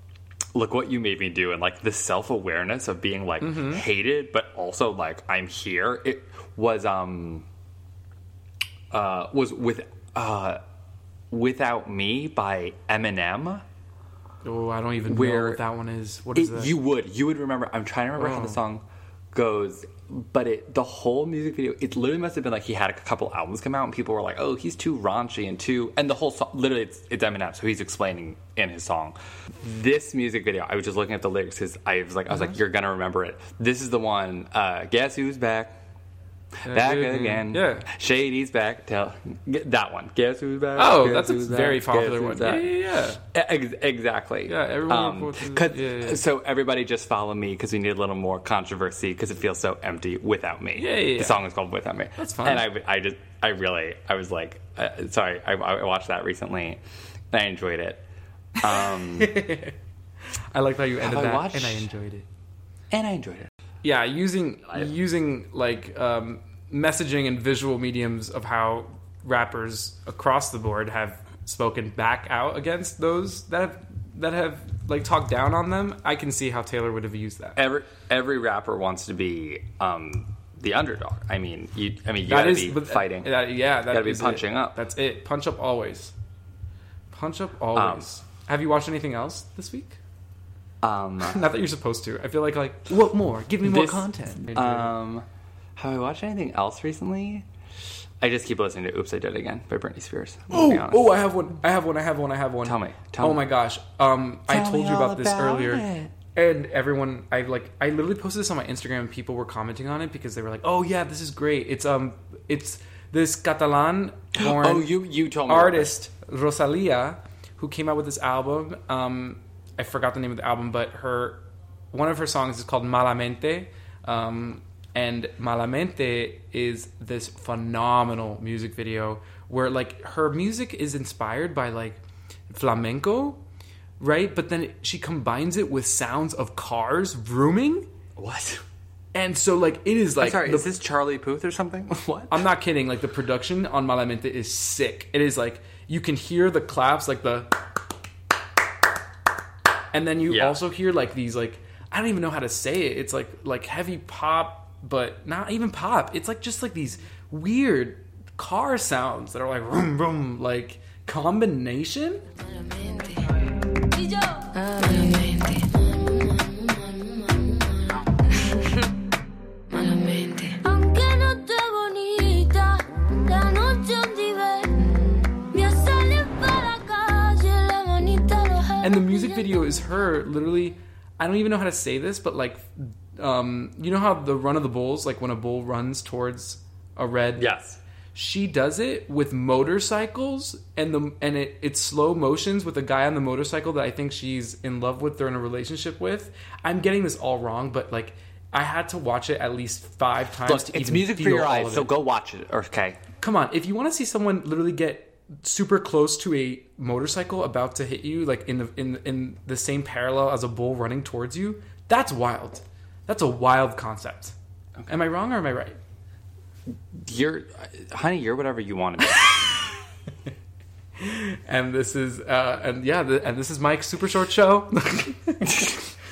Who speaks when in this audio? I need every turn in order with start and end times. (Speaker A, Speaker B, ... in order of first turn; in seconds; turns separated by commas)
Speaker A: 0.5-7.5, Speaker B: 3.4-3.8, Speaker A: 8.9-10.6, Speaker A: 11.3-13.6, Speaker B: 14.4-16.7, Speaker A: 15.0-15.6, Speaker A: 16.3-35.8, Speaker B: 18.2-18.6, Speaker A: 36.6-42.7, Speaker B: 36.6-37.9, Speaker B: 40.8-43.2, Speaker A: 43.3-58.0, Speaker B: 44.5-46.2, Speaker B: 50.8-51.4, Speaker B: 52.2-52.7, Speaker A: 58.6-59.4, Speaker B: 58.7-59.7, Speaker B: 60.5-62.3, Speaker A: 61.0-61.9, Speaker A: 62.9-63.5, Speaker B: 63.8-77.6, Speaker A: 77.6-84.8, Speaker B: 82.2-86.1, Speaker B: 87.1-90.0, Speaker A: 87.7-88.1, Speaker A: 90.8-91.5, Speaker B: 91.2-94.9, Speaker A: 93.6-95.2, Speaker A: 95.8-97.5, Speaker A: 98.2-101.1, Speaker B: 100.5-114.9, Speaker A: 102.6-103.4, Speaker A: 104.5-106.1, Speaker A: 114.3-115.9, Speaker B: 115.5-133.4, Speaker B: 134.0-137.9, Speaker A: 138.2-138.6, Speaker B: 139.1-140.7, Speaker A: 140.2-142.4, Speaker B: 142.3-147.5, Speaker B: 149.9-162.2, Speaker A: 150.3-150.6, Speaker C: 162.6-168.8, Speaker C: 169.7-179.2, Speaker B: 178.8-187.5, Speaker A: 187.3-187.8, Speaker B: 188.1-201.9, Speaker A: 200.4-203.0, Speaker B: 203.2-214.3, Speaker B: 214.9-215.8, Speaker A: 216.9-219.6, Speaker B: 221.0-225.8, Speaker A: 225.4-225.8